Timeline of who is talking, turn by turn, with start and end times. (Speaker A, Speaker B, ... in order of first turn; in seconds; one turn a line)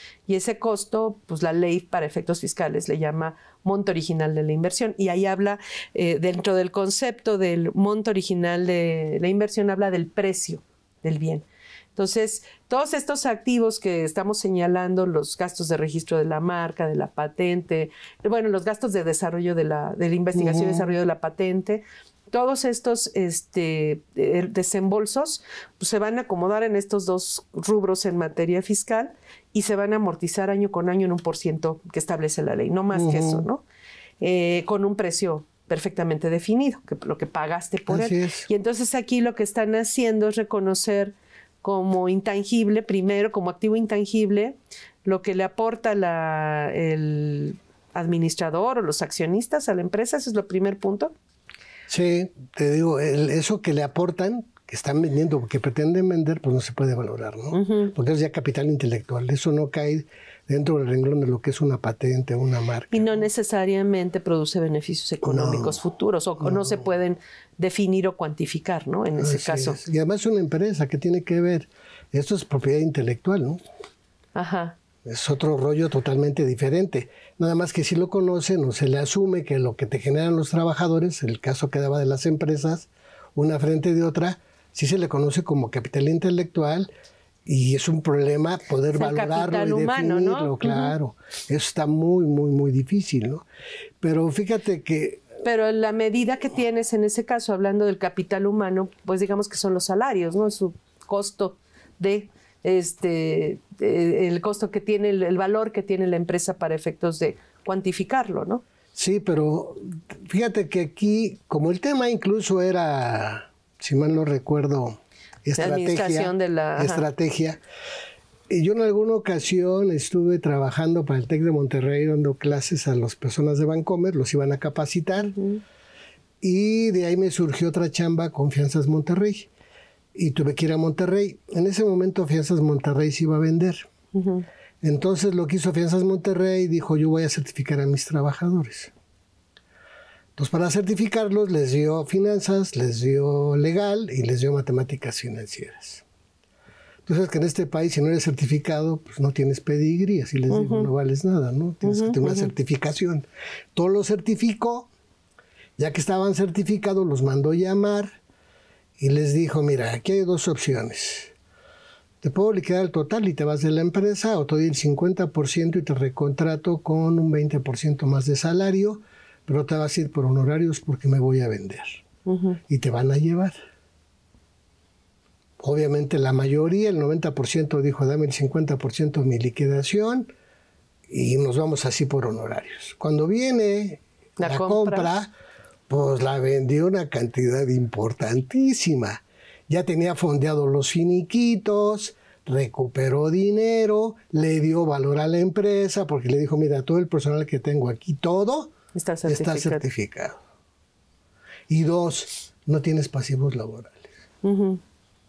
Speaker A: 0.3-11.4
Speaker A: 11.9-33.6
Speaker B: 20.3-20.9
Speaker B: 32.9-33.5
Speaker A: 34.2-51.1
Speaker B: 37.9-38.5
Speaker B: 51.9-63.3
Speaker A: 57.5-57.9
Speaker A: 62.9-69.8
Speaker B: 65.2-65.7
Speaker B: 66.4-66.8
Speaker B: 69.2-73.6
Speaker A: 74.3-74.8
Speaker B: 75.0-86.9
Speaker B: 87.5-93.4
Speaker A: 88.9-90.9
Speaker B: 94.0-95.2
Speaker A: 95.4-108.6
Speaker B: 108.9-117.6
Speaker A: 115.6-117.0
Speaker B: 118.5-125.3
Speaker A: 125.2-125.6
Speaker B: 126.4-129.5
Speaker B: 130.1-133.9
Speaker A: 134.1-134.4
Speaker B: 134.8-138.9
Speaker B: 140.3-146.0
Speaker B: 147.1-154.9
Speaker A: 150.5-150.9
Speaker A: 151.8-152.5
Speaker B: 155.8-158.2
Speaker B: 159.0-161.3
Speaker B: 162.2-172.0
Speaker A: 172.2-172.6
Speaker B: 172.7-173.5
Speaker B: 175.6-180.3
Speaker B: 181.1-185.3
Speaker A: 184.4-185.1
Speaker B: 185.9-198.7
Speaker A: 198.9-199.8
Speaker B: 199.3-200.4
Speaker B: 201.7-204.1
Speaker A: 204.4-204.8